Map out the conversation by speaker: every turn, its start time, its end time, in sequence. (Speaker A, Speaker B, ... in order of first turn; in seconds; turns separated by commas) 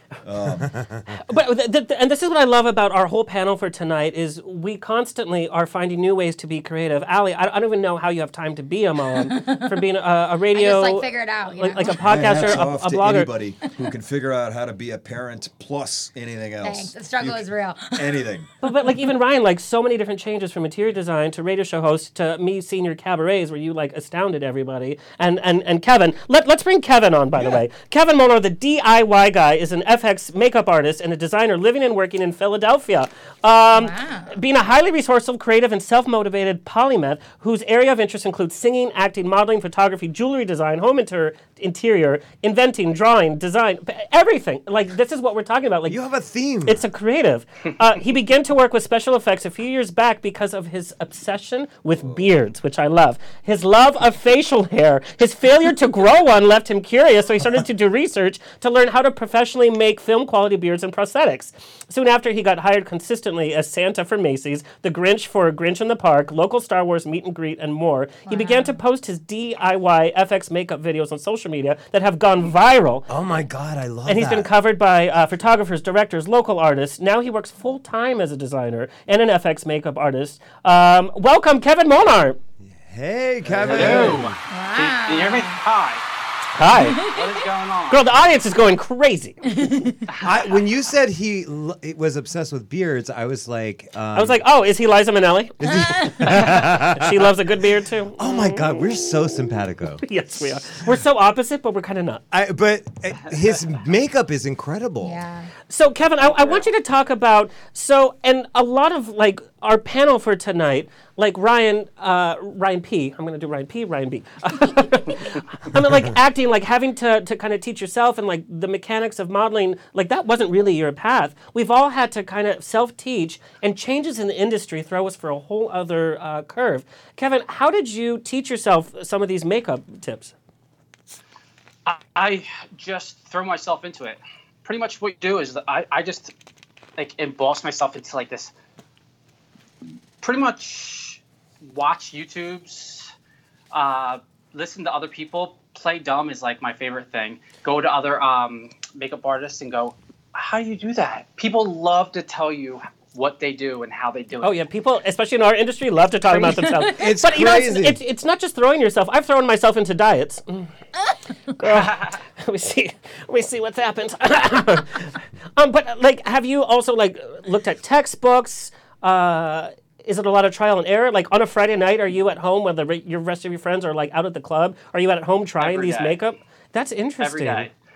Speaker A: 0.2-0.7, Speaker B: 1.1-13.3, Speaker C: 9.2-9.8, Speaker C: 10.5-12.7, Speaker A: 11.9-18.5, Speaker C: 16.6-18.1, Speaker B: 18.6-46.0, Speaker C: 33.7-34.3, Speaker D: 45.9-46.8, Speaker B: 46.6-73.1, Speaker C: 68.3-68.8, Speaker D: 73.1-74.5, Speaker B: 74.1-82.4, Speaker D: 82.7-84.3, Speaker A: 83.5-84.2, Speaker E: 83.5-86.0, Speaker C: 84.5-85.6, Speaker B: 86.5-87.1, Speaker C: 86.8-87.3, Speaker E: 87.0-88.1, Speaker B: 87.9-89.7, Speaker E: 90.1-90.3, Speaker D: 90.2-94.4, Speaker B: 94.1-98.9, Speaker D: 95.6-97.3, Speaker D: 98.2-100.0, Speaker B: 100.0-102.2, Speaker D: 102.3-105.2, Speaker C: 105.0-105.5, Speaker B: 105.7-130.3, Speaker E: 106.2-106.6, Speaker E: 131.9-136.3, Speaker E: 137.0-138.5, Speaker E: 140.2-143.1, Speaker E: 143.7-154.6, Speaker B: 154.4-160.7, Speaker D: 156.8-158.0, Speaker B: 161.6-177.7, Speaker E: 161.7-162.2, Speaker E: 175.6-176.2, Speaker E: 177.2-177.7